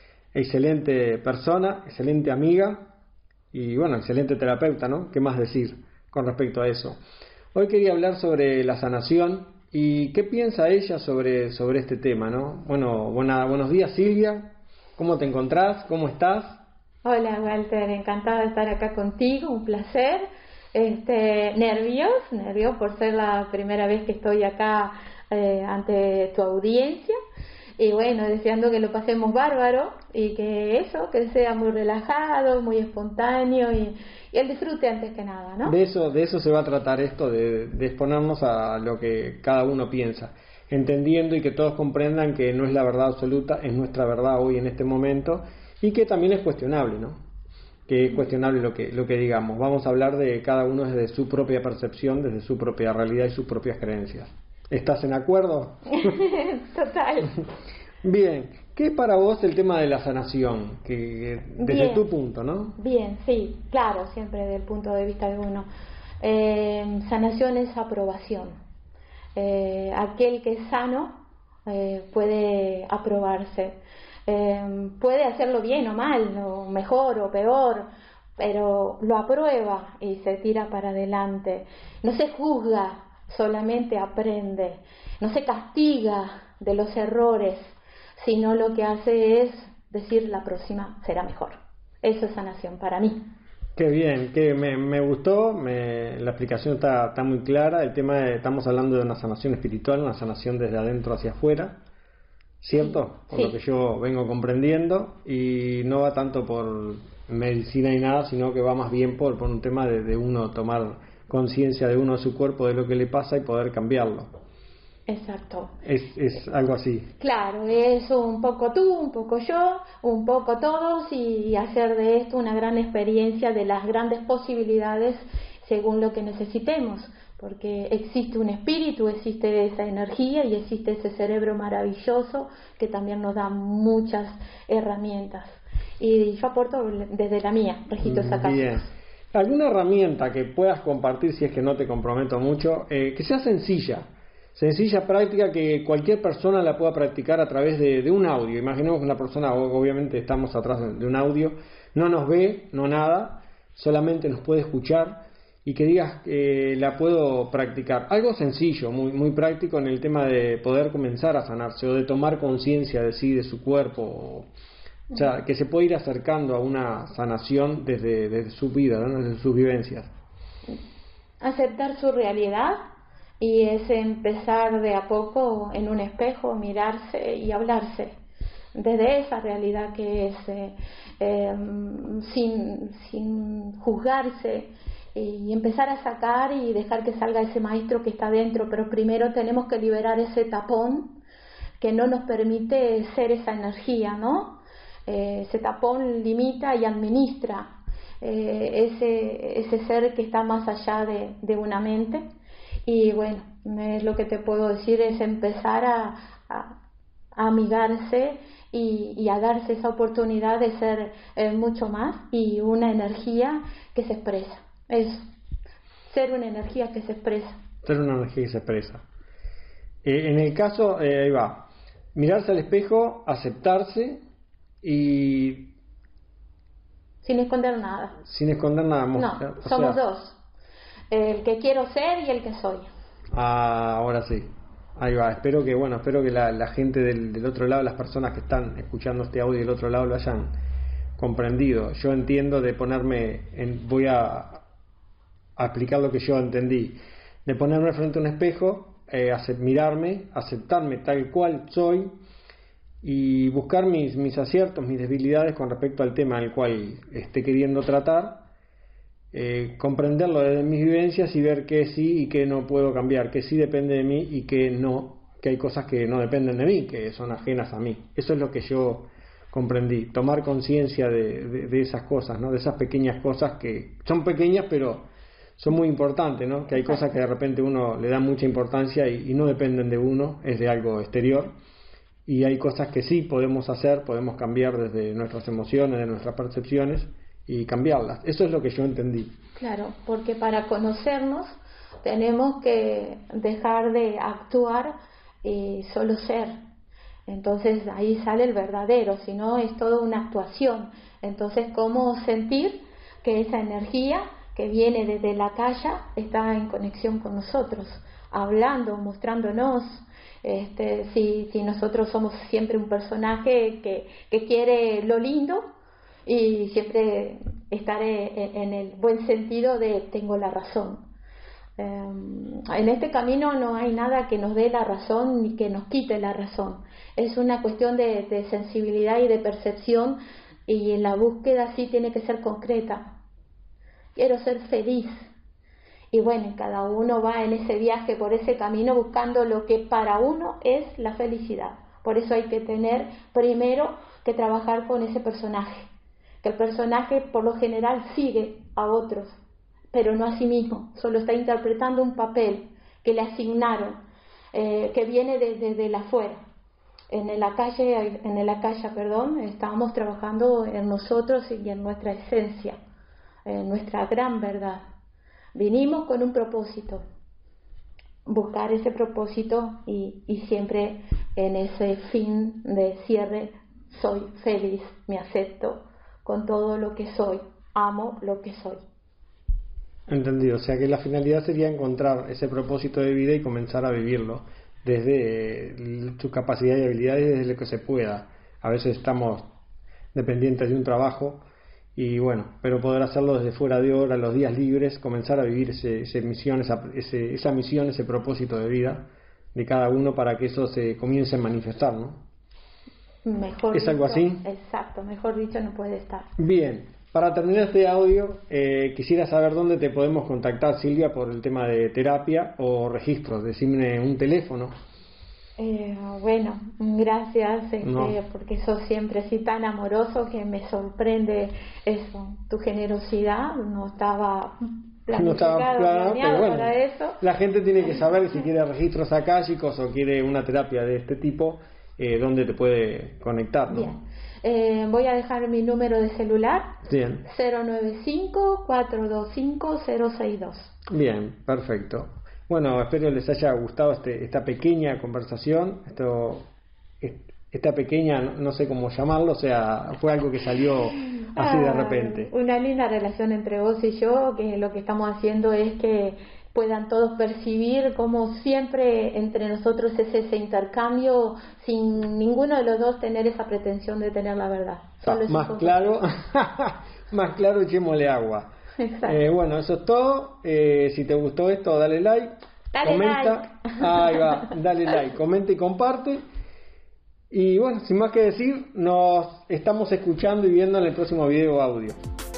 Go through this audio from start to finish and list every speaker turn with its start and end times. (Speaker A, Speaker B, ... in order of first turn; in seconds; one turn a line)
Speaker A: 0.3-2.9
Speaker A: 3.5-7.0
Speaker A: 7.5-16.6
Speaker B: 17.0-27.1
Speaker B: 27.8-35.8
Speaker A: 35.6-47.2
Speaker A: 47.9-56.1
Speaker B: 55.9-57.4
Speaker A: 58.0-62.8
Speaker B: 61.6-62.0
Speaker B: 62.8-65.7
Speaker B: 66.2-68.5
Speaker B: 69.4-77.9
Speaker B: 78.4-93.2
Speaker A: 93.8-101.8
Speaker A: 102.6-114.3
Speaker B: 102.8-103.5
Speaker B: 115.1-115.8
Speaker A: 115.8-117.1
Speaker B: 117.2-138.8
Speaker A: 138.0-164.5
Speaker A: 165.1-170.1
Speaker B: 171.4-172.8
Speaker B: 173.4-178.2
Speaker B: 178.8-191.2
Speaker B: 191.8-202.2
Speaker B: 202.9-206.8
Speaker B: 207.3-215.2
Speaker B: 216.1-217.6
Speaker A: 217.8-219.0
Speaker A: 220.0-224.2
Speaker A: 224.8-225.7
Speaker B: 227.2-228.2
Speaker A: 228.2-230.0
Speaker B: 229.2-230.4
Speaker B: 231.1-232.9
Speaker A: 233.3-240.6
Speaker A: 241.2-244.6
Speaker A: 245.6-252.1
Speaker A: 253.0-258.5
Speaker A: 259.3-281.5
Speaker A: 282.3-289.3
Speaker B: 289.6-294.9
Speaker B: 295.4-296.5
Speaker B: 297.3-315.6
Speaker B: 316.3-321.1
Speaker B: 321.8-333.1
Speaker B: 334.1-335.3
Speaker B: 336.1-345.9
Speaker B: 346.4-349.4
Speaker B: 349.9-354.0
Speaker B: 354.5-356.4
Speaker B: 357.1-362.8
Speaker B: 363.5-364.8
Speaker B: 365.6-367.0
Speaker B: 368.3-378.8
Speaker A: 380.1-389.4
Speaker A: 390.1-391.4
Speaker A: 392.0-402.2
Speaker B: 403.2-406.3
Speaker A: 403.7-404.4
Speaker A: 406.4-414.7
Speaker B: 415.6-427.2
Speaker A: 417.8-418.1
Speaker A: 425.1-433.9
Speaker B: 433.7-436.7
Speaker A: 436.9-437.2
Speaker B: 437.2-440.7
Speaker A: 440.9-446.4
Speaker A: 447.0-452.3
Speaker B: 451.4-466.0
Speaker A: 465.0-468.5
Speaker B: 468.8-469.2
Speaker A: 469.1-472.3
Speaker B: 472.7-474.2
Speaker A: 472.8-476.2
Speaker A: 477.3-482.0